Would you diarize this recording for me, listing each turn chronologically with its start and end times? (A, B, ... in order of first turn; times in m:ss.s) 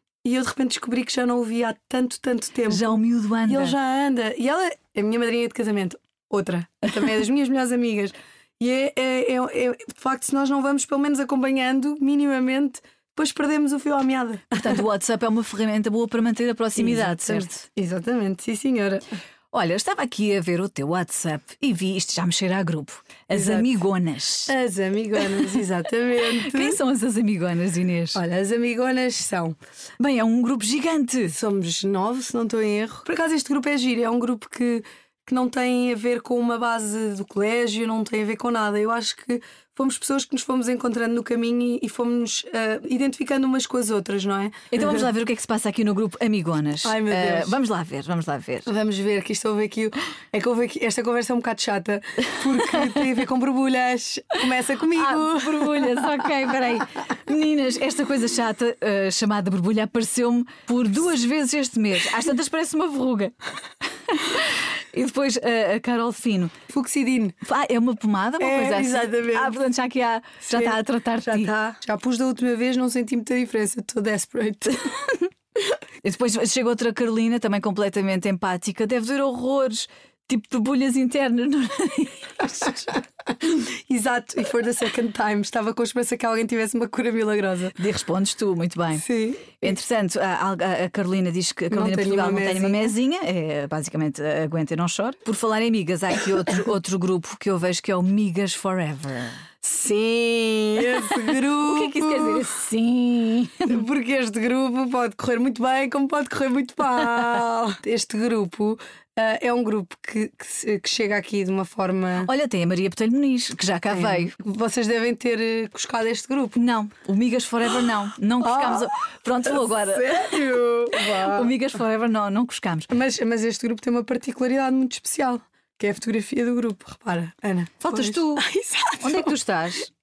0:00.2-0:14.8 A
0:02.7-0:03.8 B
0:14.5-0:17.6 B
0:16.8-0:19.0 A
0:19.5-0:24.6 B
0:23.3-0:23.8 A
0:24.5-0:26.8 A
0:26.3-0:28.2 B
0:28.2-0:29.6 A
0:30.0-0:31.4 B
0:31.3-0:45.1 A
0:44.7-0:48.7 B
0:46.8-0:47.6 A
0:48.7-0:56.3 A
0:54.9-1:03.4 B
1:04.1-1:06.6 B
1:06.7-1:07.4 A
1:07.4-1:11.5 B
1:08.4-1:09.6 A
1:10.4-1:14.9 A
1:16.0-1:23.0 B
1:22.4-1:27.8 A
1:27.8-1:29.0 B
1:28.9-1:29.8 A
1:29.6-1:39.4 B
1:31.7-1:33.0 A
1:39.6-1:42.5 A
1:41.6-1:43.8 B
1:43.7-1:52.3 A
1:52.2-1:54.4 B
1:53.9-1:56.6 A
1:56.6-2:02.9 B
1:58.4-1:58.9 A
1:59.4-2:01.6 A
2:02.9-2:09.4 A
2:07.8-2:08.4 B
2:09.0-2:09.9 B